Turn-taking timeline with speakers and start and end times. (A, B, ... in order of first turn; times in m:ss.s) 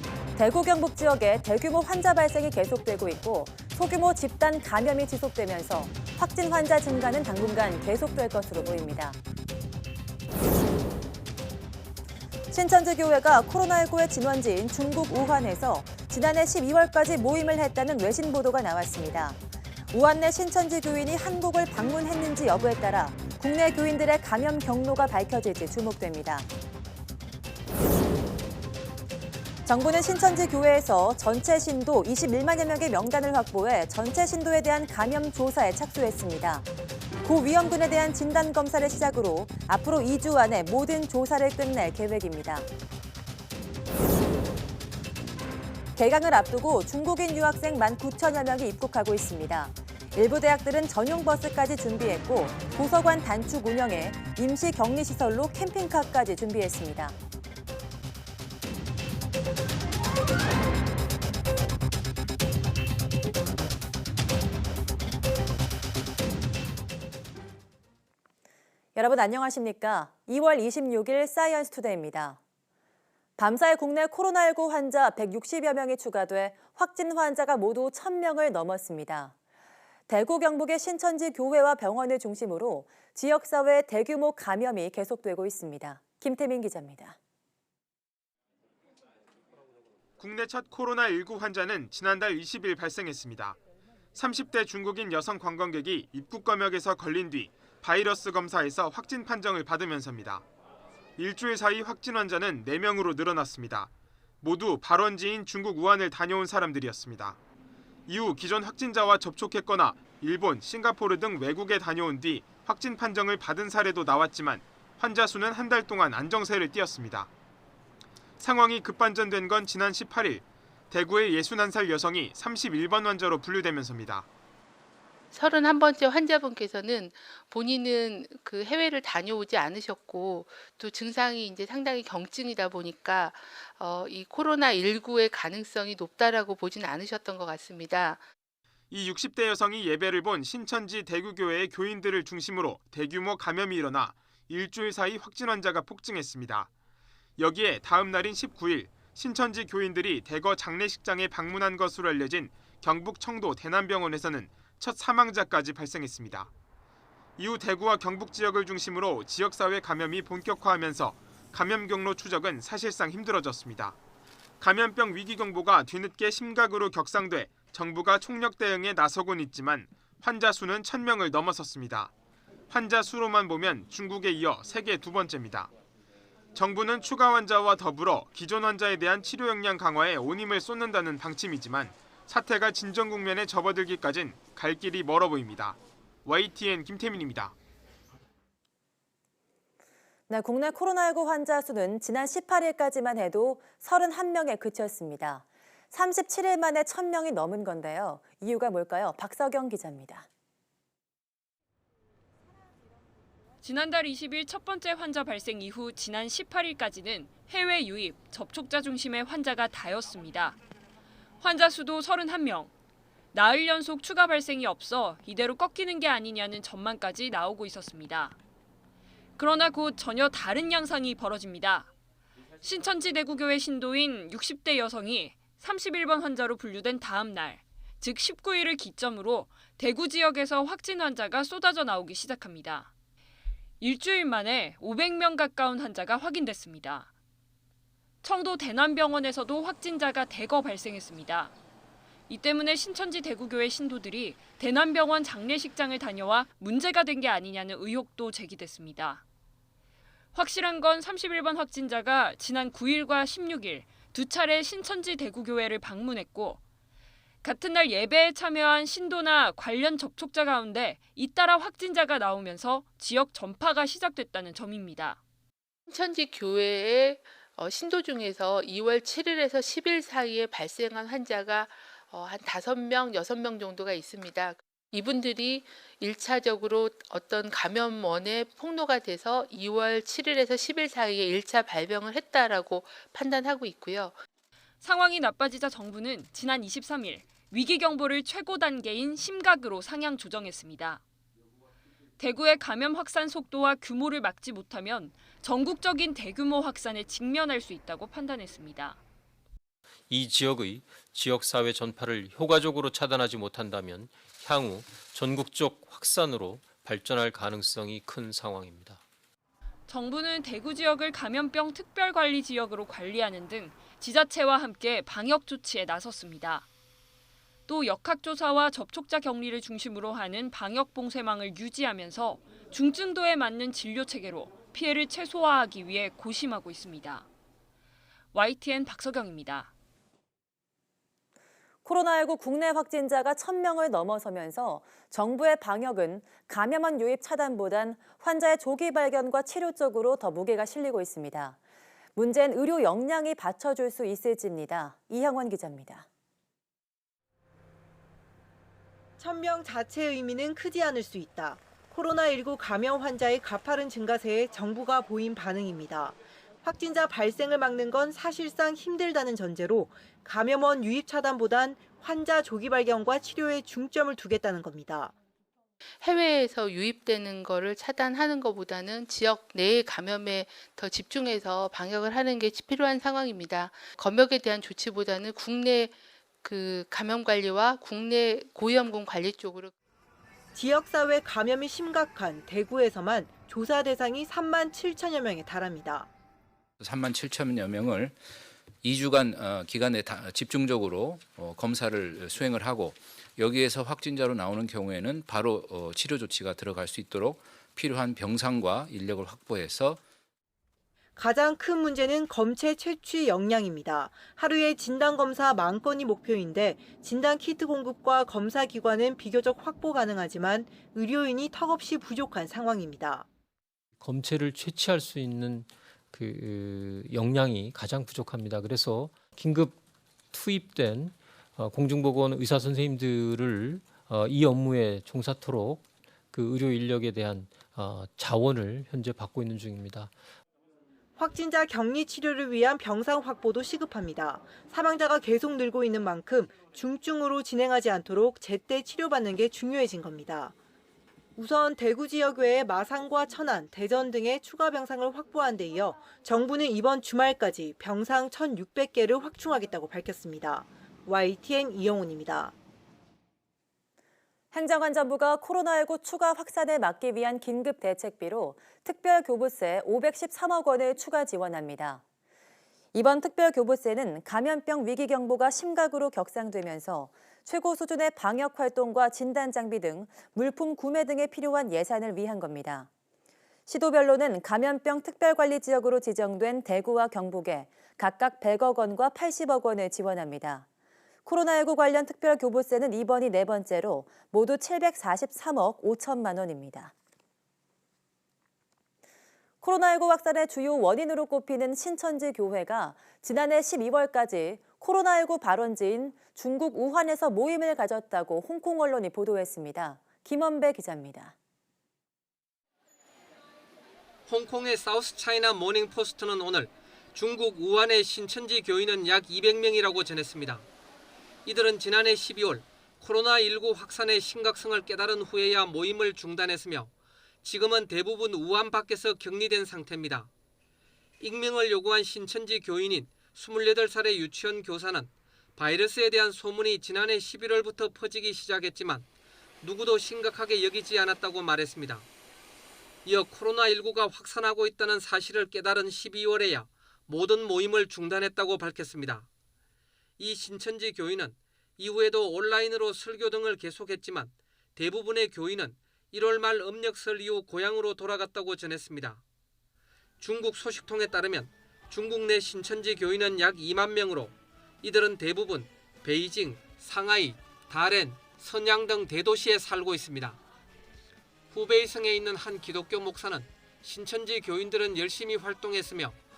0:00.4-0:09.2 A
0:12.5-0:19.4 A
0:19.9-0:26.5 A
0:29.7-0:36.7 A
0:37.2-0:42.7 A
0:46.0-0:57.2 A
1:09.0-1:12.4 A
1:13.4-1:19.3 A
1:20.1-1:27.2 A
1:30.2-1:33.6 B
1:34.2-1:40.4 B
1:41.2-1:43.9 B
1:44.4-1:47.4 B
1:48.1-1:57.3 B
1:58.4-2:04.3 B
2:05.3-2:18.2 C
2:18.9-2:26.7 B
2:27.4-2:36.5 B
2:37.4-2:44.0 B
2:44.6-2:52.1 B
2:52.7-2:55.7 B
2:56.6-3:07.5 B
3:10.3-3:20.3 A
3:23.6-3:30.6 D
3:31.4-3:32.7 D
3:33.3-3:38.4 D
3:39.4-3:41.9 D
3:42.6-3:52.9 D
3:53.8-3:57.1 D
3:58.2-4:01.5 D
4:02.3-4:09.2 D
4:10.3-4:16.6 D
4:17.4-4:25.2 D
4:25.9-4:44.2 C
4:44.8-4:51.0 D
4:52.2-4:59.0 D
5:00.1-5:09.0 E
5:09.9-5:16.7 D
5:17.7-5:27.3 D
5:28.3-5:29.7 D
5:31.8-5:41.6 A
5:42.2-5:46.1 A
5:49.2-6:05.1 F
6:06.0-6:19.7 C
6:20.6-6:26.1 F
6:26.8-6:28.2 G
6:28.8-6:40.0 G
6:41.2-6:53.3 F
6:54.0-6:59.8 E
7:00.3-7:10.2 E
7:11.2-7:20.5 F
7:21.4-7:32.5 F
7:34.5-7:42.0 A
7:42.9-7:52.9 A
7:53.7-8:00.7 A
8:01.3-8:06.9 A
8:09.6-8:21.3 A
8:24.3-8:30.7 H
8:31.4-8:36.9 H
8:37.4-8:40.3 H
8:41.2-8:49.1 H
8:49.6-8:52.1 H
8:53.0-8:59.3 H
9:00.2-9:09.2 H
9:10.2-9:20.4 H
9:21.5-9:26.2 H